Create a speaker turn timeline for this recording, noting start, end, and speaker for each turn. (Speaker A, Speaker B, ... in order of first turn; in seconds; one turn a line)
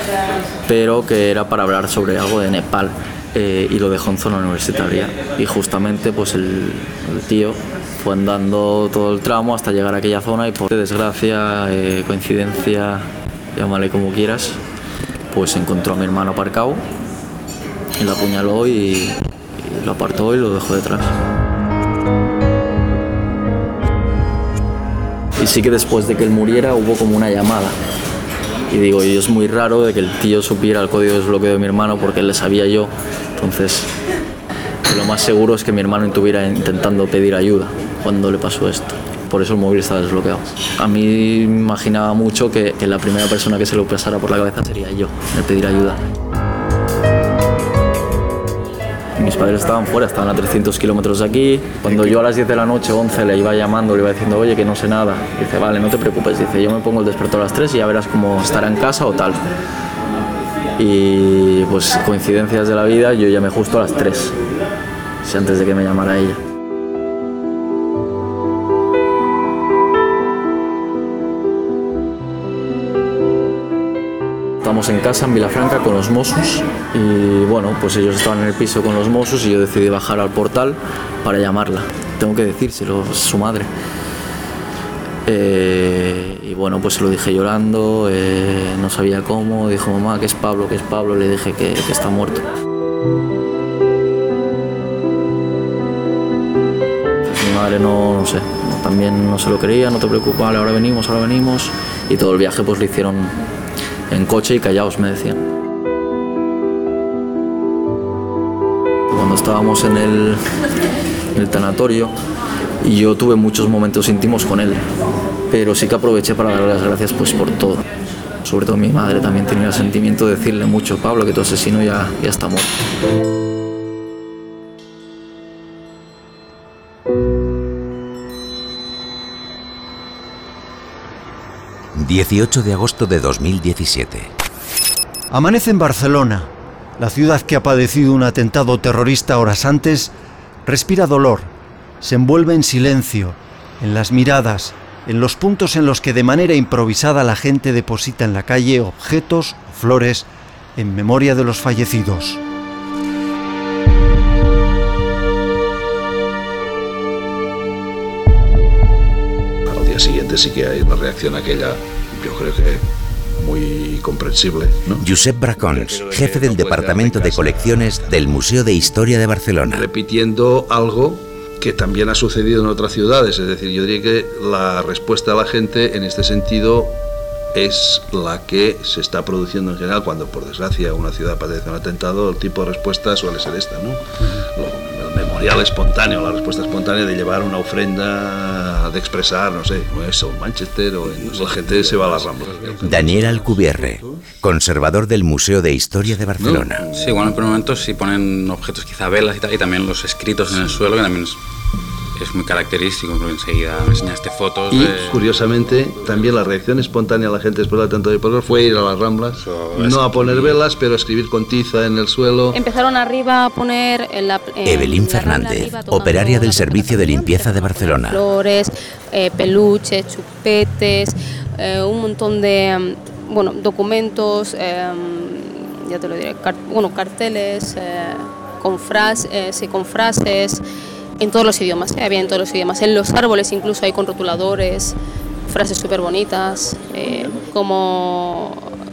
Speaker A: 0.7-14.6
Speaker A: 15.3-16.8
Speaker A: 18.0-21.2
Speaker A: 25.4-27.7
Speaker A: 28.7-33.9
Speaker A: 34.9-46.0
Speaker A: 49.2-59.4
Speaker A: 60.8-64.3
Speaker A: 65.2-66.4
Speaker A: 74.6-83.7
Speaker A: 85.2-92.4
Speaker A: 97.2-103.3
Speaker A: 104.1-105.4
Speaker A: 109.1-110.4
Speaker A: 111.3-112.1
Speaker A: 112.8-114.8
Speaker A: 115.5-117.8
Speaker A: 118.4-122.7
Speaker B: 131.9-134.3
Speaker C: 135.3-140.1
Speaker C: 140.6-152.4
Speaker D: 159.7-162.8
Speaker D: 163.4-168.4
Speaker B: 165.0-169.8
Speaker D: 169.7-176.9
Speaker D: 177.5-194.1
Speaker B: 192.8-196.8
Speaker D: 196.4-197.2
Speaker E: 196.9-201.4
Speaker E: 202.2-205.2
Speaker D: 204.7-212.6
Speaker E: 209.4-210.6
Speaker F: 212.5-230.6
Speaker B: 214.7-218.2
Speaker F: 231.2-234.9
Speaker F: 235.5-238.7